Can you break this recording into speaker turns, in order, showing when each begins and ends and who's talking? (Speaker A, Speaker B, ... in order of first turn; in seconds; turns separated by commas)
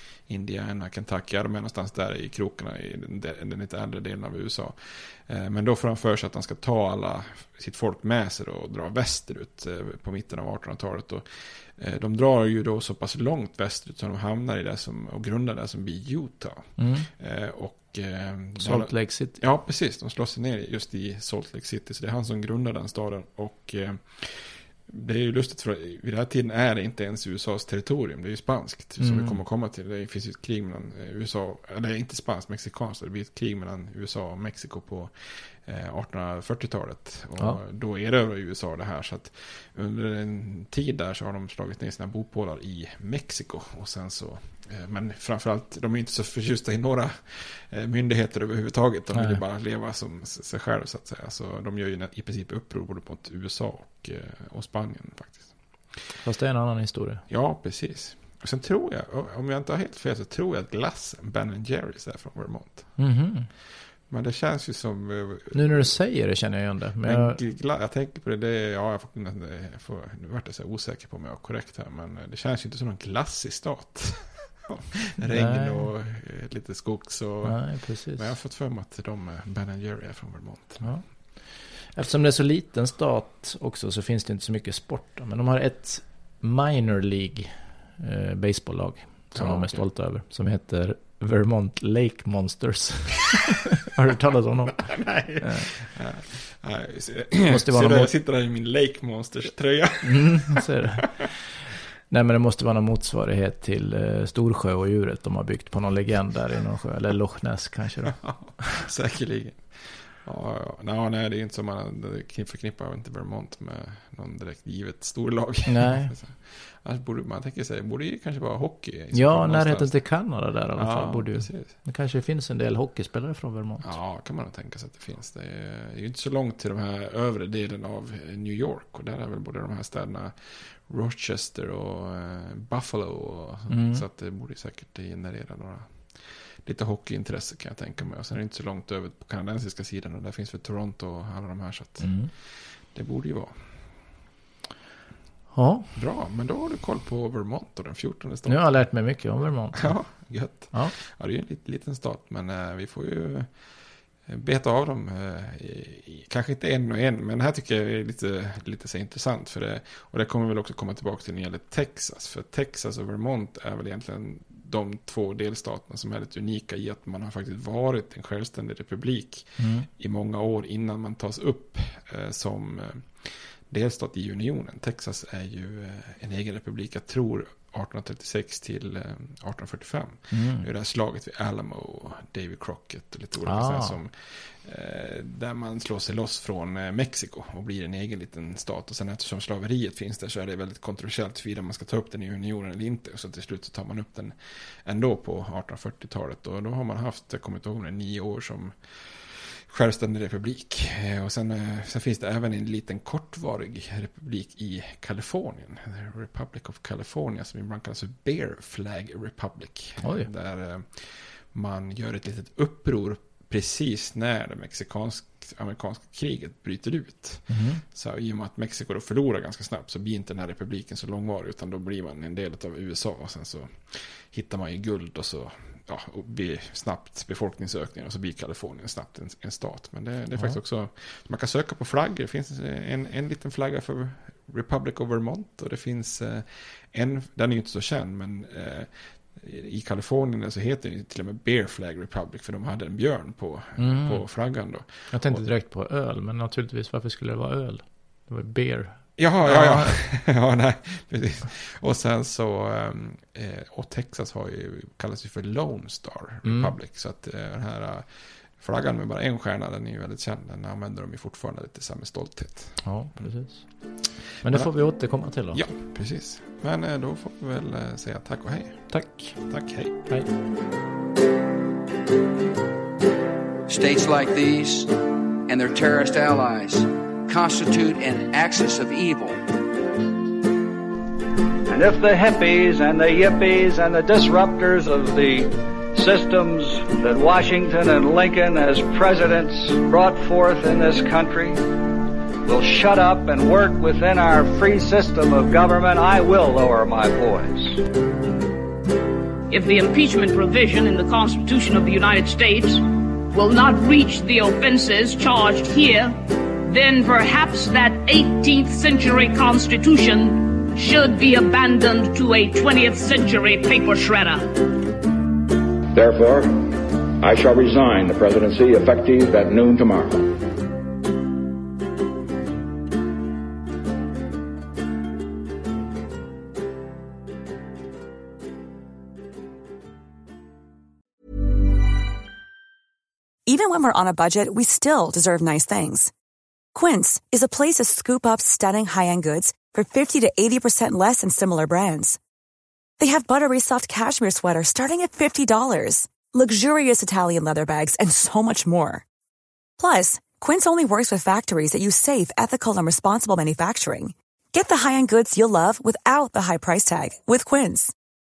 Speaker A: 0.3-35.1, Speaker B: 16.8-17.1, Speaker B: 18.6-19.4, Speaker B: 29.0-29.4, Speaker A: 35.6-55.5, Speaker B: 49.1-49.4, Speaker B: 56.2-57.2, Speaker A: 57.3-63.0, Speaker B: 63.0-63.5, Speaker A: 64.1-65.9, Speaker B: 65.5-67.4, Speaker A: 67.0-80.9, Speaker B: 75.3-75.9, Speaker B: 77.4-78.3, Speaker B: 80.8-81.1, Speaker B: 82.0-95.7, Speaker A: 89.3-89.8, Speaker A: 94.9-100.6, Speaker B: 97.5-98.1, Speaker B: 100.0-101.4, Speaker B: 102.1-108.6, Speaker A: 108.1-120.1, Speaker B: 115.7-116.1, Speaker B: 119.1-123.9, Speaker A: 120.8-121.7, Speaker A: 123.8-143.8, Speaker B: 133.7-134.0, Speaker B: 142.0-142.3, Speaker B: 145.5-145.9, Speaker A: 145.9-149.0, Speaker B: 148.5-150.9, Speaker A: 149.8-153.7, Speaker A: 154.3-245.4, Speaker B: 169.6-169.9, Speaker B: 180.3-180.7, Speaker B: 183.4-184.0, Speaker B: 210.0-210.3, Speaker B: 217.5-217.8, Speaker B: 243.8-244.3, Speaker B: 245.1-250.0, Speaker A: 249.2-263.3, Speaker B: 256.4-256.7, Speaker B: 262.8-265.6, Speaker A: 264.4-264.7, Speaker A: 265.5-270.1, Speaker B: 268.9-270.3, Speaker C: 273.7-274.9, Speaker C: 275.5-279.4, Speaker D: 281.7-291.6, Speaker D: 292.4-297.8, Speaker E: 299.5-314.6, Speaker F: 315.9-320.4, Speaker G: 333.5-336.1, Speaker G: 336.7-342.2, Speaker G: 343.0-349.0, Speaker G: 349.8-357.9